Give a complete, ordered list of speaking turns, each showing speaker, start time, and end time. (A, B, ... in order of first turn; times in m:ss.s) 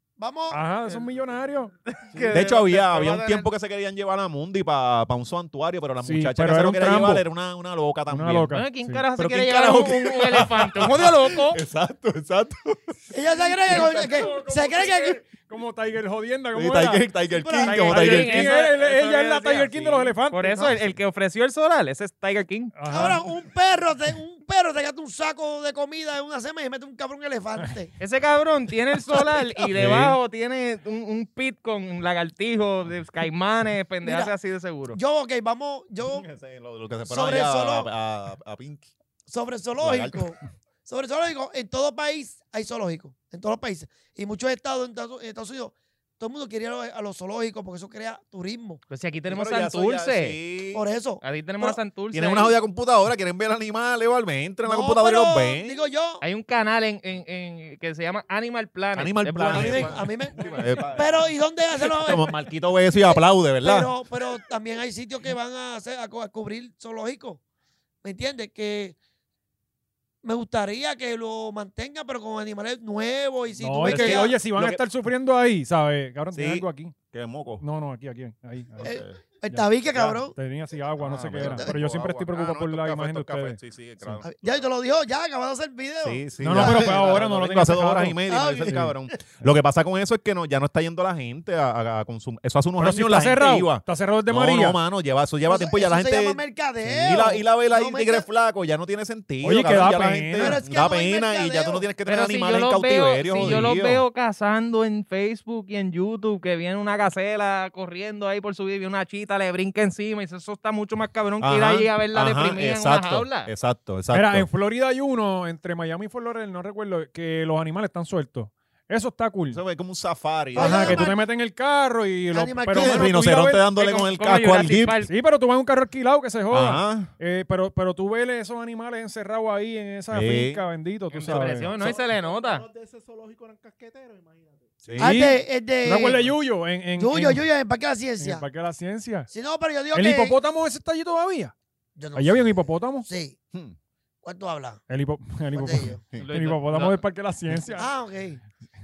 0:00.2-0:00.6 A
0:00.5-0:02.4 B
0:01.9-0:03.5 C
0:02.3-0:08.5 D
0:06.0-0:07.2 B
0:08.1-0:09.0 B
0:08.5-0:11.6 C
0:09.2-0:12.8 D
0:13.1-0:15.2 A
0:13.6-0:17.1 B
0:16.5-0:18.6 D
0:17.4-0:17.9 A
0:17.6-0:22.7 C
0:17.8-0:20.5 B
0:22.8-0:23.3 B
0:22.9-0:27.9 A
0:28.0-0:35.0 C
0:29.7-0:30.2 D
0:34.0-0:34.3 A
0:34.9-0:36.3 A
0:36.0-0:38.9 D
0:37.1-0:37.9 A
0:39.3-0:48.8 A
0:39.8-0:40.3 D
0:48.9-0:50.4 C
0:49.3-0:50.8 D
0:50.7-0:51.8 A
0:51.2-0:52.6 C
0:52.1-0:55.8 D
0:54.6-0:56.2 A
0:56.2-1:00.0 C
0:59.0-1:03.9 D
0:59.5-1:02.3 A
1:03.0-1:07.4 A
1:08.0-1:09.0 A
1:10.2-1:14.4 A
1:13.6-1:16.9 B
1:13.8-1:14.8 D
1:16.3-1:17.6 D
1:17.6-1:18.9 B
1:18.8-1:19.2 D
1:18.8-1:20.4 A
1:19.5-1:24.2 B
1:19.9-1:20.2 D
1:21.0-1:24.6 D
1:21.4-1:21.7 A
1:24.2-1:27.1 A
1:26.0-1:44.0 D
1:26.4-1:28.9 B
1:28.3-1:29.0 A
1:32.8-1:34.8 B
1:35.5-1:38.3 A
1:39.4-1:40.6 B
1:40.4-1:41.9 A
1:42.1-1:53.5 C
1:51.4-1:54.5 D
1:54.1-1:59.6 B
1:59.5-2:01.1 D
2:00.6-2:01.2 A
2:00.6-2:03.6 B
2:02.3-2:03.1 A
2:02.7-2:05.1 D
2:03.7-2:05.1 C
2:05.1-2:11.8 B
2:06.5-2:07.1 D
2:10.1-2:10.6 D
2:11.1-2:12.7 C
2:11.4-2:14.9 E
2:14.8-2:15.2 D
2:15.0-2:16.4 A
2:15.0-2:17.4 B
2:17.0-2:18.5 A
2:18.2-2:19.3 B
2:19.3-2:20.4 A
2:19.9-2:21.5 B
2:22.0-2:23.4 A
2:22.2-2:23.1 B
2:24.2-2:24.8 A
2:24.9-2:27.9 B
2:25.5-2:26.0 A
2:26.2-2:27.0 C
2:27.8-2:28.4 A